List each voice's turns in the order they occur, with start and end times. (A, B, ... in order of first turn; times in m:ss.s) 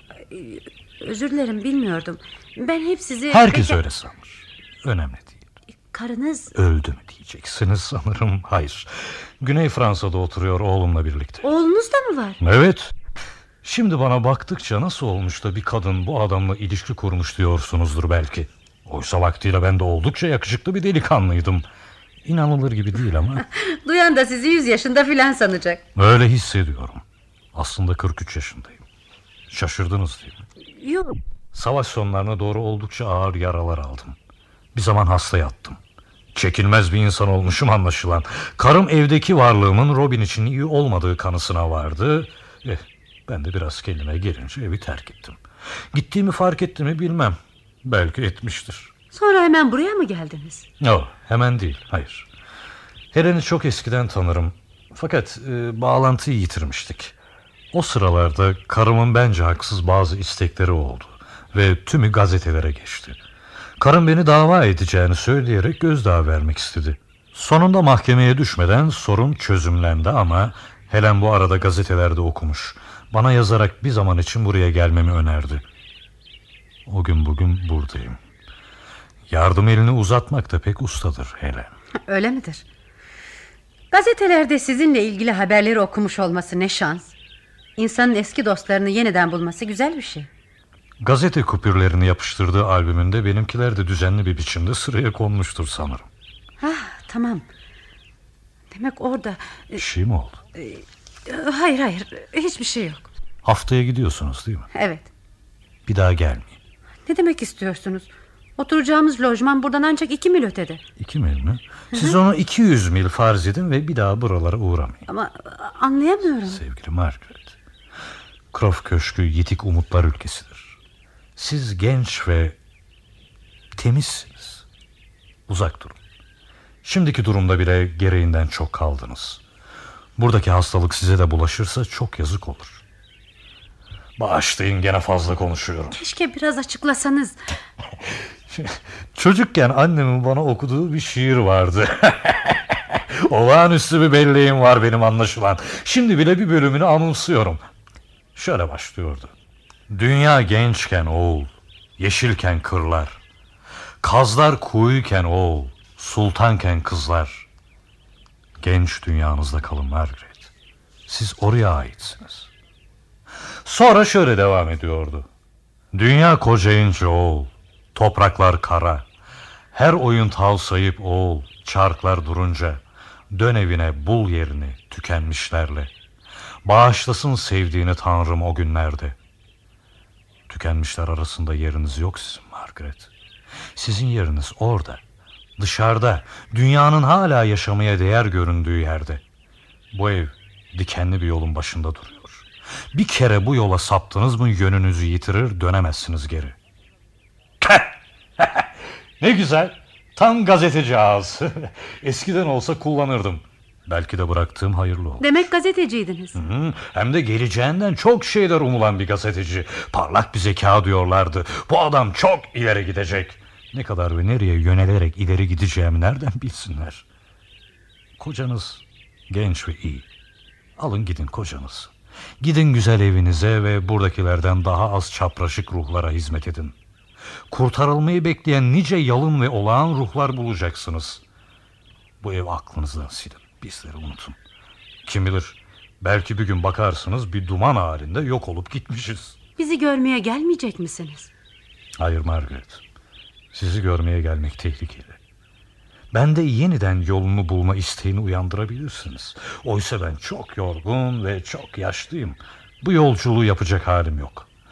0:00.3-0:03.8 A
0:03.3-0:05.4 B
0:05.8-0:06.5 A
0:06.6-0:11.4 B
0:11.4-0:12.4 A
0:12.4-0:12.9 B
0:13.6-0:21.6 B
0:22.2-0:23.4 B
0:23.6-0:25.8 A
0:26.0-0:27.0 B
0:27.5-0:28.8 B
0:29.5-0:30.4 B
0:30.8-0:31.2 A
0:31.5-0:34.2 B
0:34.7-0:35.8 B
0:36.4-0:45.4 B
0:45.9-0:48.9 B
0:49.1-0:50.7 A
0:50.8-0:52.3 B
0:53.1-0:57.1 B
0:57.7-1:03.2 B
1:03.8-1:15.6 B
1:16.9-1:18.2 B
1:19.3-1:21.7 B
1:22.1-1:22.6 A
1:23.9-1:27.1 A
1:27.8-1:30.3 A
1:31.0-1:36.1 B
1:36.6-1:37.5 A
1:38.7-1:39.8 A
1:39.8-1:40.4 B
1:40.6-1:43.1 A
1:43.4-1:44.7 B
1:44.7-1:45.1 A
1:45.9-1:46.6 B
1:47.0-1:50.8 A
1:51.0-1:55.0 B
1:55.1-1:56.6 A
1:56.5-1:57.5 B
1:58.5-2:00.8 B
2:01.4-2:02.6 B
2:03.8-2:04.6 B
2:05.5-2:06.0 B
2:06.8-2:09.4 B
2:10.2-2:12.8 B
2:14.2-2:16.0 B
2:15.9-2:17.4 A
2:18.5-2:27.6 B
2:28.4-2:29.3 B
2:29.9-2:33.2 B
2:34.0-2:37.5 B
2:38.6-2:40.5 B
2:41.1-2:42.5 B
2:43.6-2:45.3 B
2:45.9-2:49.0 B
2:49.7-2:55.9 B
2:56.6-2:59.2 B
3:00.5-3:03.1 B
3:03.8-3:05.0 B
3:05.6-3:09.2 B
3:09.9-3:16.6 B
3:17.6-3:18.7 B
3:19.2-3:25.3 B
3:25.2-3:26.4 A
3:26.4-3:37.0 B
3:38.2-3:40.1 B
3:40.8-3:46.7 B
3:47.5-3:51.2 B
3:52.2-3:54.4 B
3:55.0-3:59.4 B
3:59.6-4:01.3 A
4:02.0-4:02.8 B
4:03.5-4:05.2 B
4:06.1-4:14.5 B